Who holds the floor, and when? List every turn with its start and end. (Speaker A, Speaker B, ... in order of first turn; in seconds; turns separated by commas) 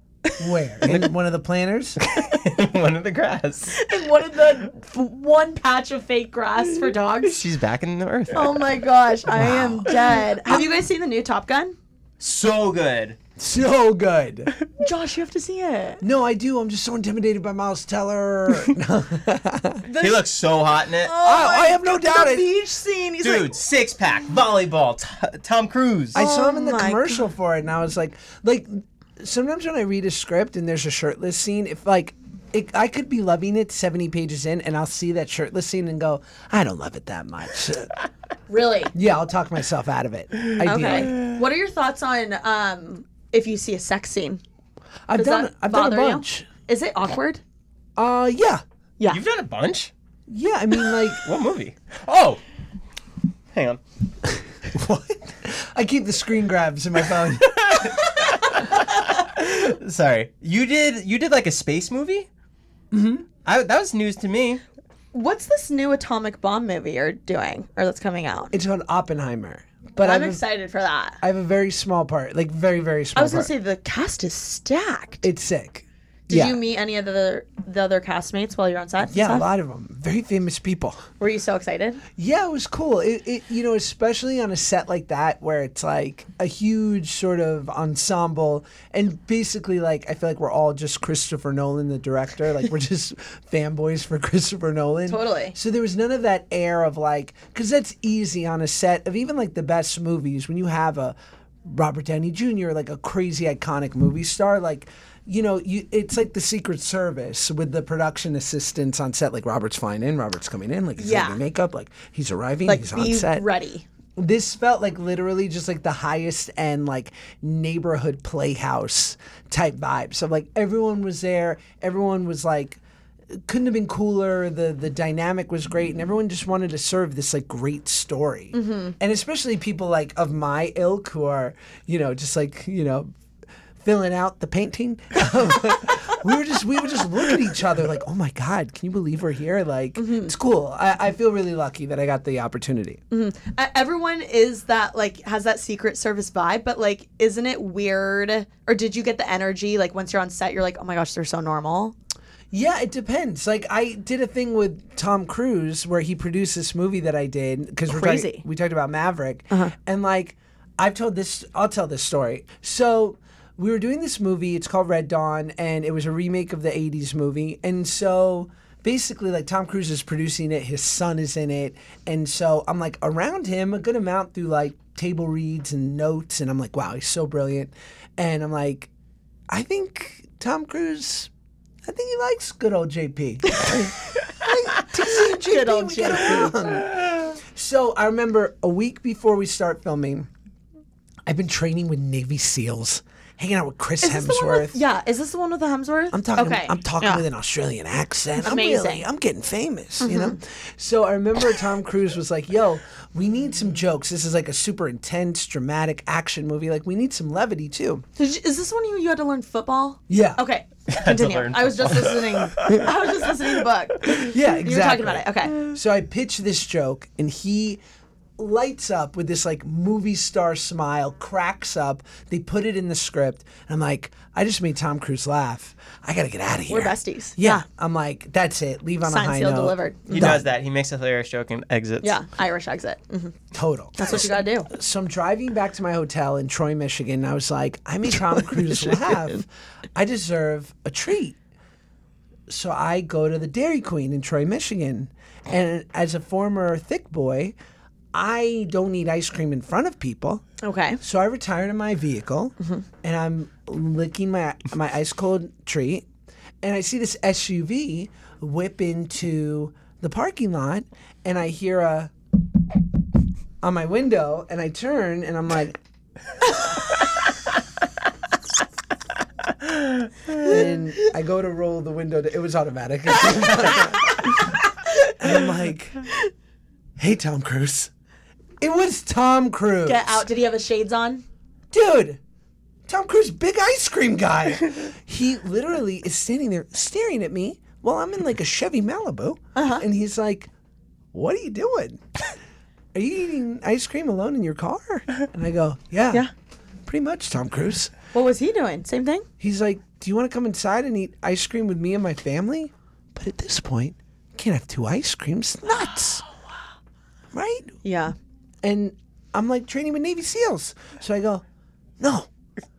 Speaker A: 0.4-2.0, Speaker B: 0.8-1.1, Speaker B: 2.1-3.8, Speaker C: 3.7-7.4, Speaker B: 7.2-8.6, Speaker C: 8.3-11.8, Speaker A: 9.3-10.0, Speaker B: 12.2-13.2, Speaker A: 13.4-14.5, Speaker C: 14.8-16.0, Speaker A: 16.0-19.9, Speaker C: 19.8-20.3, Speaker B: 20.0-21.1, Speaker C: 21.0-23.6, Speaker A: 21.2-22.5, Speaker B: 23.2-26.2, Speaker A: 26.1-37.9, Speaker C: 26.1-27.2, Speaker C: 38.5-38.9, Speaker A: 38.9-41.1, Speaker C: 40.6-44.4, Speaker A: 45.1-46.5, Speaker C: 45.2-47.4, Speaker A: 48.0-48.6, Speaker B: 49.1-49.9, Speaker A: 50.3-51.3, Speaker B: 51.2-52.4, Speaker B: 53.5-53.8, Speaker A: 54.7-58.0, Speaker B: 57.6-62.3, Speaker A: 62.9-63.3, Speaker B: 63.5-64.6, Speaker C: 65.1-68.5, Speaker A: 68.5-70.4, Speaker C: 70.0-71.2, Speaker A: 71.2-73.5, Speaker C: 73.2-75.3, Speaker A: 75.2-76.6, Speaker C: 76.3-79.5, Speaker A: 79.1-81.1, Speaker C: 81.2-82.0, Speaker A: 82.2-113.5, Speaker C: 95.1-95.6, Speaker C: 111.0-111.4, Speaker C: 112.7-113.8, Speaker A: 114.2-122.8, Speaker A: 123.4-133.1, Speaker C: 128.5-128.9, Speaker A: 133.8-143.0, Speaker C: 140.0-140.3, Speaker C: 143.1-151.9, Speaker A: 152.5-178.9, Speaker C: 157.9-158.4, Speaker A: 179.5-181.3, Speaker A: 181.8-190.3, Speaker C: 185.0-186.8, Speaker A: 191.3-194.8, Speaker C: 194.0-197.2, Speaker A: 196.1-208.1, Speaker C: 198.4-199.1, Speaker C: 200.0-200.4, Speaker C: 208.2-215.6, Speaker A: 210.1-210.4, Speaker B: 210.9-212.8, Speaker A: 214.1-217.8, Speaker A: 218.4-230.5, Speaker C: 226.7-227.7, Speaker C: 229.0-230.4, Speaker B: 230.1-232.2, Speaker C: 232.0-233.4, Speaker A: 233.5-241.4, Speaker C: 234.0-234.7, Speaker A: 242.5-247.6, Speaker A: 248.1-250.4, Speaker C: 250.6-251.0, Speaker A: 251.0-256.1, Speaker A: 256.6-262.1, Speaker A: 263.6-265.8, Speaker A: 270.4-274.5, Speaker A: 275.2-276.1, Speaker A: 277.0-277.9, Speaker A: 278.6-280.3, Speaker C: 279.9-281.2, Speaker A: 281.7-282.2, Speaker A: 282.9-290.5, Speaker C: 289.6-289.9, Speaker A: 291.1-292.0, Speaker A: 292.9-296.3, Speaker A: 296.9-297.9, Speaker C: 298.1-299.3, Speaker A: 299.4-306.2, Speaker A: 307.3-307.8, Speaker C: 307.8-308.1, Speaker A: 308.6-311.4, Speaker A: 312.0-312.3